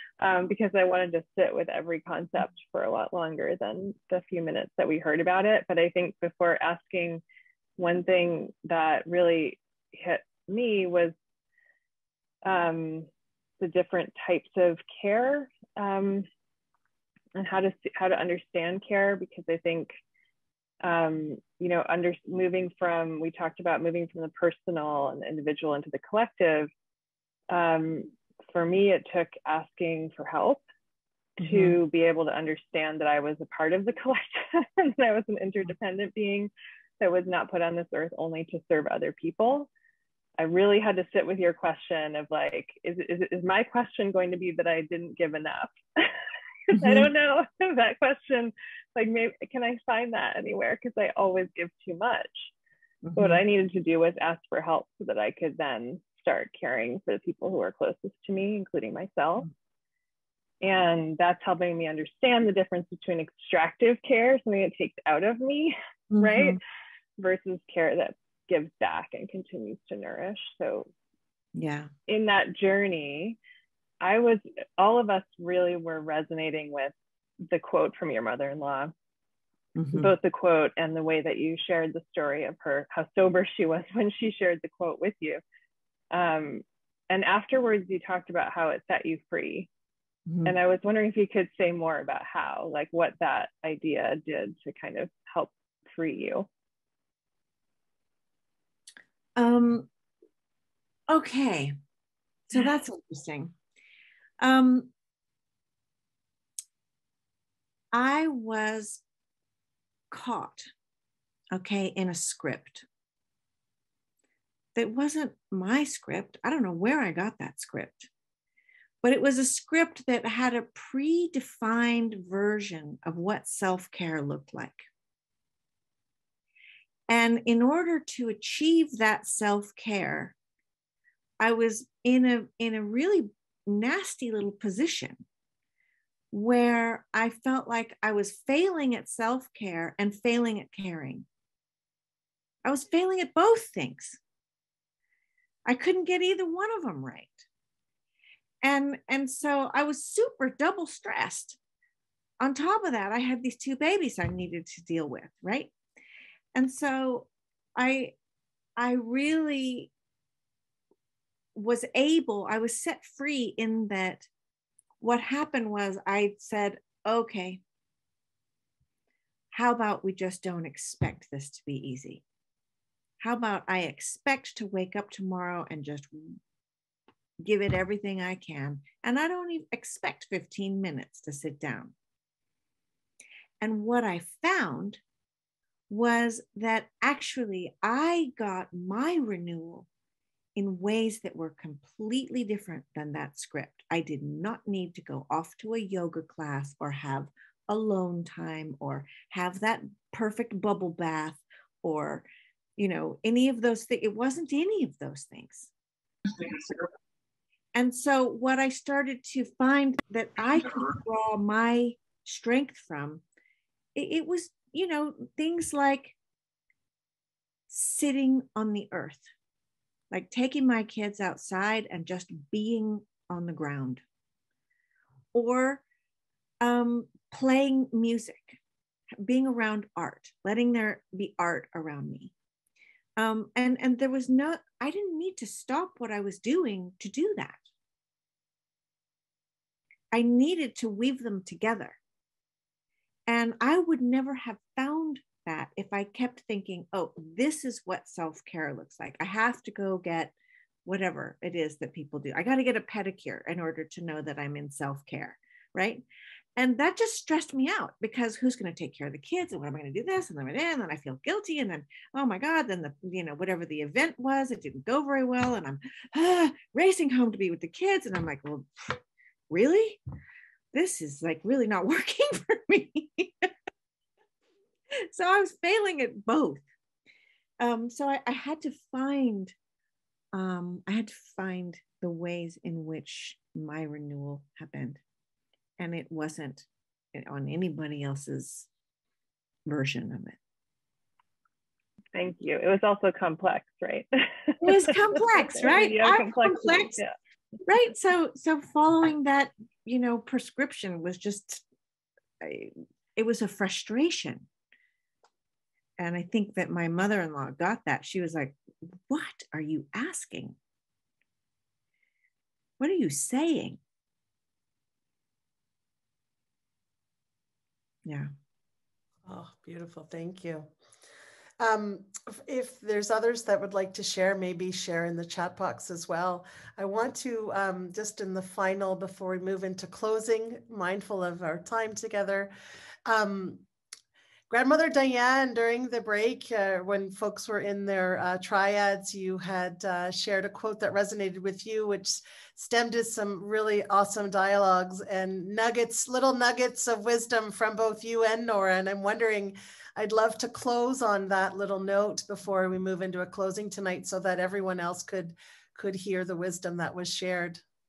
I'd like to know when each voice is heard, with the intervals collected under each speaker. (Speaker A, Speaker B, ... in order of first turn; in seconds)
Speaker A: 0.2-7.2, 7.8-11.1, 12.4-13.1, 13.6-16.3, 17.4-19.9, 20.8-26.7, 27.5-30.6, 31.4-39.7, 40.4-46.1, 46.7-52.5, 53.1-59.5, 60.6-66.6, 67.2-70.9, 72.1-73.4, 74.0-76.9, 77.4-78.9, 79.9-85.4, 86.1-89.7, 90.4-96.5, 292.1-297.1
Speaker B: 31.4-31.8, 46.8-47.0, 53.0-53.4, 66.1-66.6, 71.5-71.9, 79.8-80.1, 90.3-90.5, 99.3-99.9, 101.1-101.7, 102.5-103.5, 104.4-104.9, 107.9-109.0, 110.1-110.7, 111.5-112.8, 114.7-118.1, 119.0-124.8, 127.1-130.3, 131.4-135.2, 136.3-141.2, 142.6-144.2, 145.7-147.4, 148.6-151.6, 152.4-155.7, 156.5-158.1, 158.8-159.9, 161.6-164.3, 165.0-167.6, 169.5-172.2, 173.2-176.4, 177.4-181.9, 183.6-185.0, 185.9-189.9, 190.6-202.2, 202.8-205.7, 207.7-213.2, 213.9-216.1, 217.7-219.2, 220.1-224.0, 225.3-225.8, 226.6-228.6, 229.2-232.3, 233.2-237.6, 240.1-242.0, 243.3-250.3, 250.8-256.0, 256.6-269.0, 269.5-270.0, 270.7-273.5, 275.0-276.6, 277.6-279.5, 280.3-285.0, 285.8-288.7, 289.6-290.4, 294.6-297.0, 297.7-301.6, 302.4-304.5, 306.0-310.6, 312.8-313.8, 318.1-318.3
Speaker C: 319.2-320.7, 321.6-332.5, 333.1-333.6, 334.5-357.6